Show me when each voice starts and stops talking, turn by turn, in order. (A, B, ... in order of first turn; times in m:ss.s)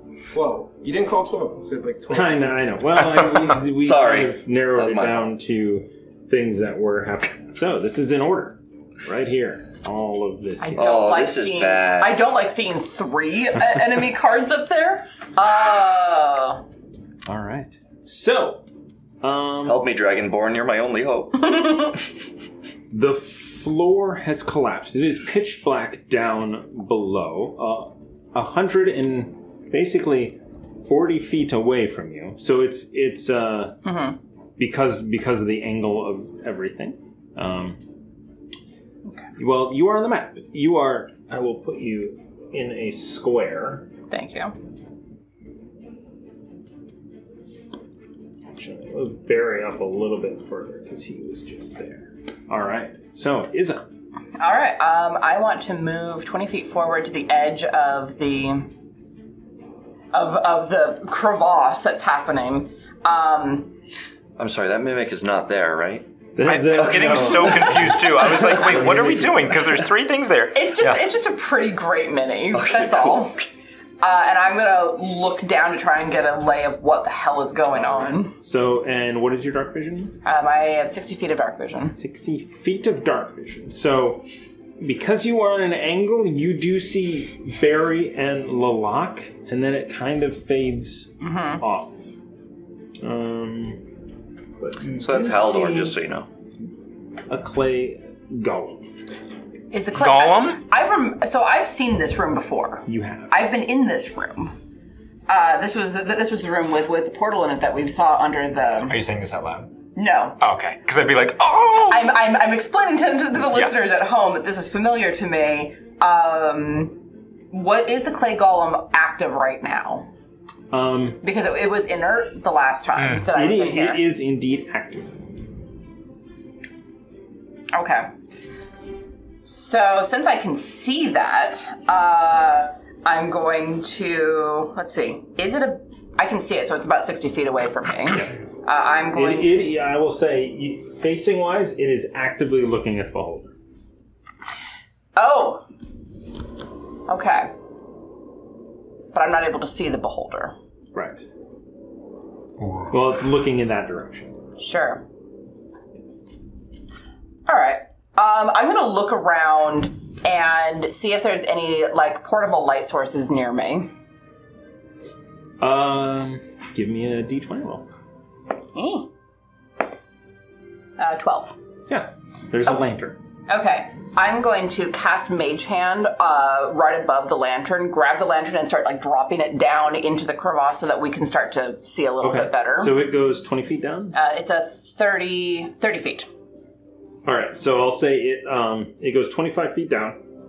0:00.3-0:02.5 A
0:02.1-0:10.8 B
0:03.4-0:05.3 C
0:10.6-0:16.6 D
0:10.7-0:12.2 C
0:17.3-0:17.7 C
0:18.0-0:18.6 B
0:19.2-0:19.9 B
0:19.6-0:21.9 C
0:22.9-0:33.8 B
0:33.8-0:34.2 D
0:34.6-0:37.8 B
0:39.4-0:43.9 B
0:44.1-0:44.5 D
0:48.5-0:53.8 B
0:54.4-0:58.7 D
1:00.1-1:03.7 D
1:04.4-1:06.1 C
1:06.4-1:09.6 B
1:06.4-1:11.0 E
1:06.7-1:07.8 C
1:10.6-1:13.4 D
1:12.5-1:13.5 C
1:14.0-1:18.3 D
1:17.7-1:20.1 B
1:20.2-1:22.0 D
1:22.0-1:24.3 B
1:24.8-1:32.1 B
1:31.2-1:31.6 D
1:33.0-1:33.8 B
1:34.6-1:36.0 B
1:35.0-1:36.3 C
1:37.3-1:38.8 B
1:39.7-1:44.6 D
1:40.0-1:40.6 E
1:42.9-1:43.4 B
1:45.3-1:49.0 D
1:48.9-1:49.7 E
1:50.0-1:50.4 D
1:50.4-1:52.2 E
1:51.9-1:57.0 D
1:53.4-1:53.7 E
1:57.5-2:00.1 D
2:00.7-2:01.2 B
2:01.2-2:04.0 D
2:03.0-2:03.2 E
2:03.3-2:05.2 B
2:07.7-2:08.1 D
2:09.4-2:19.5 D
2:19.1-2:23.6 B
2:25.2-2:25.6 D
2:27.1-2:27.5 D
2:29.1-2:30.6 D
2:30.9-2:31.3 B
2:32.6-2:32.9 E
2:32.9-2:34.4 B
2:34.6-2:35.0 D
2:36.0-2:36.3 B
2:37.5-2:43.9 D
2:45.6-2:47.9 B
2:48.7-2:49.1 D
2:51.0-2:51.6 D
2:51.9-2:53.2 B
2:53.5-3:02.9 D
3:02.2-3:04.2 B
3:04.1-3:06.3 D
3:07.2-3:10.2 B